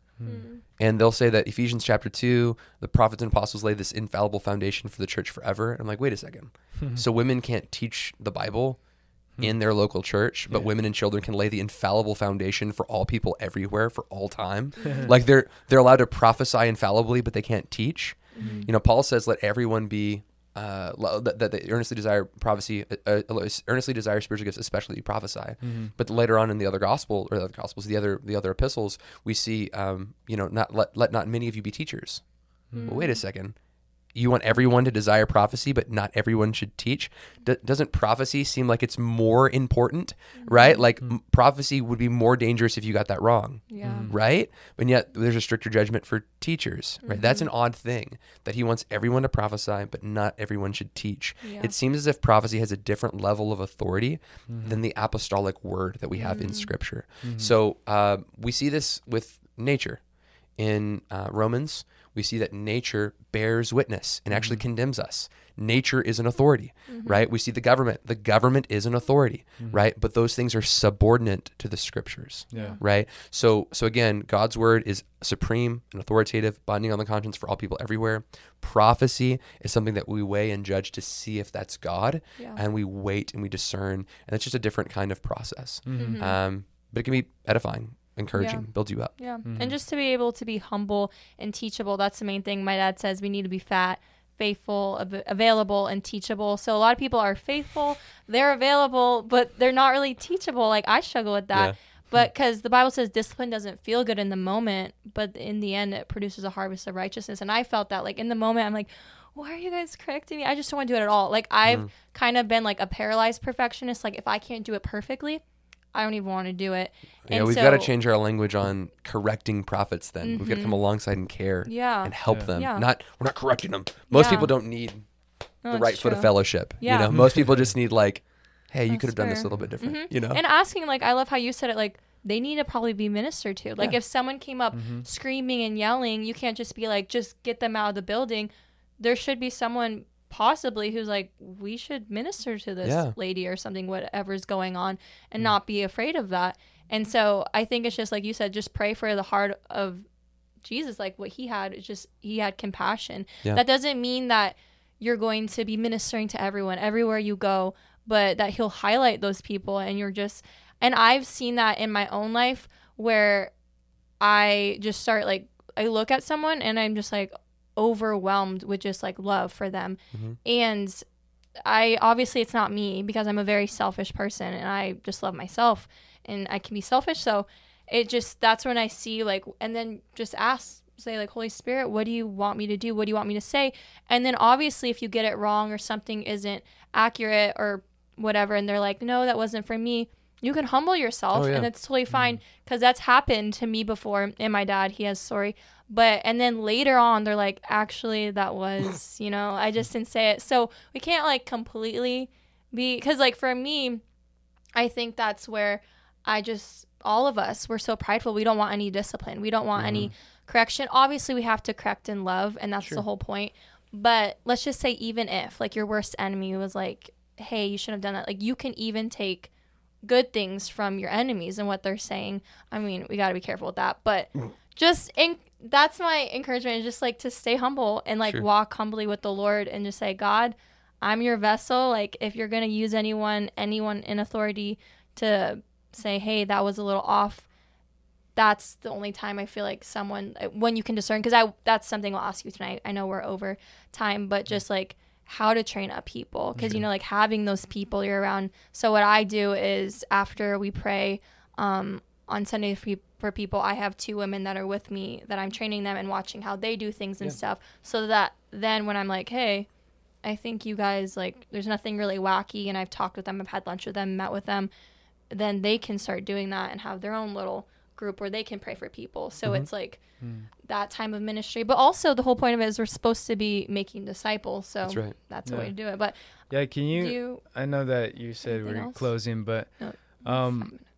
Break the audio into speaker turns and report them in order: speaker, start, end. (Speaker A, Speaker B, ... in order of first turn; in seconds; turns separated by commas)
Speaker A: 0.2-0.5, Speaker B: 0.2-0.6, Speaker C: 0.8-8.8, Speaker C: 9.4-32.2, Speaker B: 14.8-15.1, Speaker B: 18.3-18.7, Speaker A: 18.4-18.7, Speaker A: 25.6-25.9, Speaker A: 32.7-33.0, Speaker B: 32.7-33.2, Speaker C: 32.8-33.5, Speaker C: 34.1-60.0, Speaker B: 40.4-40.8, Speaker B: 43.7-44.1, Speaker A: 43.8-44.1, Speaker B: 47.0-47.5, Speaker B: 51.4-51.7, Speaker A: 54.5-54.8, Speaker B: 56.1-56.7, Speaker A: 57.2-57.5, Speaker C: 60.6-89.2, Speaker A: 64.3-64.6, Speaker B: 66.9-67.2, Speaker B: 72.5-72.8, Speaker A: 72.5-72.8, Speaker A: 85.9-86.2, Speaker B: 86.0-86.4, Speaker B: 88.3-115.4, Speaker A: 89.5-89.8, Speaker C: 111.6-111.9, Speaker B: 115.9-117.9, Speaker C: 117.3-125.1, Speaker B: 120.2-120.8, Speaker B: 121.7-122.9, Speaker B: 124.1-124.5, Speaker B: 125.6-127.2, Speaker C: 125.7-130.4, Speaker A: 127.1-127.7, Speaker B: 128.9-150.1, Speaker A: 134.7-135.1, Speaker C: 142.8-143.1, Speaker B: 150.6-163.5, Speaker B: 164.2-171.0, Speaker C: 170.1-170.4, Speaker B: 171.6-204.0, Speaker C: 191.3-191.7, Speaker A: 192.1-192.4, Speaker B: 204.8-219.5, Speaker C: 209.8-210.1, Speaker B: 220.0-237.5, Speaker B: 238.3-259.7, Speaker A: 246.6-246.8, Speaker B: 260.2-264.7, Speaker B: 265.3-277.4, Speaker C: 269.4-269.7, Speaker A: 270.2-270.5, Speaker C: 274.8-275.2, Speaker A: 275.4-280.8, Speaker B: 278.4-280.9